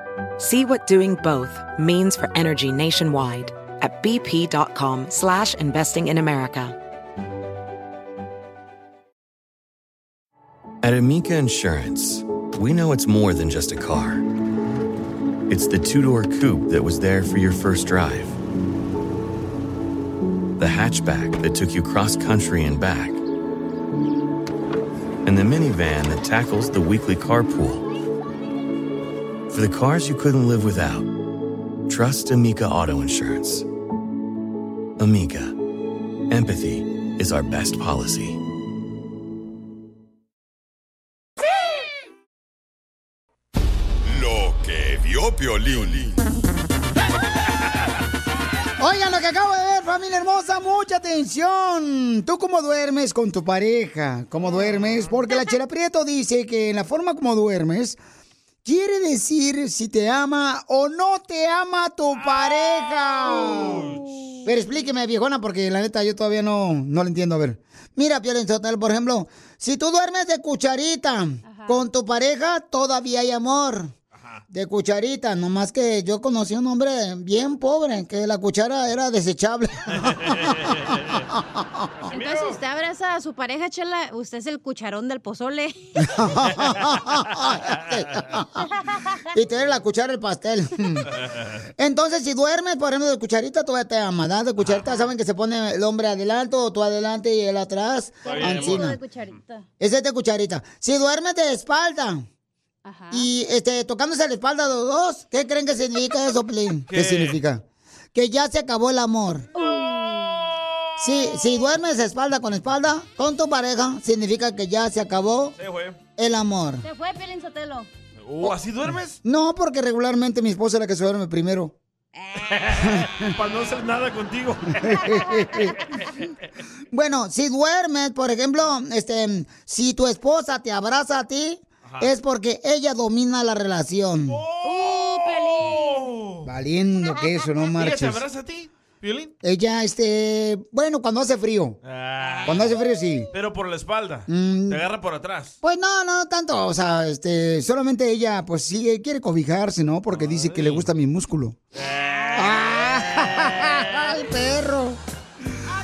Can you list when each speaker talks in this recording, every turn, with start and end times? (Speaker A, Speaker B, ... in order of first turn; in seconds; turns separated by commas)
Speaker A: 0.4-6.8, Speaker B: 10.8-14.2, Speaker B: 15.5-18.4, Speaker B: 20.6-23.2, Speaker B: 25.2-27.8, Speaker B: 29.5-31.1, Speaker B: 31.9-33.6, Speaker B: 35.0-35.6, Speaker B: 36.3-38.4, Speaker C: 44.0-46.2, Speaker D: 48.8-58.0, Speaker E: 54.6-55.1, Speaker D: 58.6-63.9, Speaker E: 62.2-64.0, Speaker D: 64.4-73.9, Speaker F: 71.5-71.8, Speaker D: 74.5-80.6, Speaker E: 79.9-81.2, Speaker D: 81.3-81.6, Speaker E: 82.1-82.6, Speaker F: 82.1-85.7, Speaker D: 86.0-88.7, Speaker D: 89.3-91.1, Speaker E: 91.2-91.5, Speaker D: 91.8-99.0, Speaker F: 98.2-99.6, Speaker E: 98.2-98.9, Speaker D: 99.8-102.2, Speaker F: 102.8-103.3, Speaker D: 103.1-109.5, Speaker E: 106.9-107.4, Speaker F: 109.6-110.4, Speaker D: 111.0-115.5, Speaker E: 115.6-116.0, Speaker D: 116.2-116.8, Speaker F: 116.8-117.9, Speaker E: 118.2-119.2, Speaker D: 119.2-121.7, Speaker E: 122.5-124.8, Speaker D: 124.8-125.8, Speaker D: 126.9-134.4, Speaker E: 134.3-136.5, Speaker F: 134.6-136.0, Speaker D: 136.4-138.2, Speaker E: 137.7-139.3, Speaker D: 139.4-141.8, Speaker E: 141.8-142.7, Speaker D: 142.4-143.3, Speaker E: 143.3-145.6, Speaker D: 144.3-144.8, Speaker D: 145.6-151.6, Speaker E: 150.1-150.9, Speaker E: 151.8-153.6, Speaker D: 152.3-155.0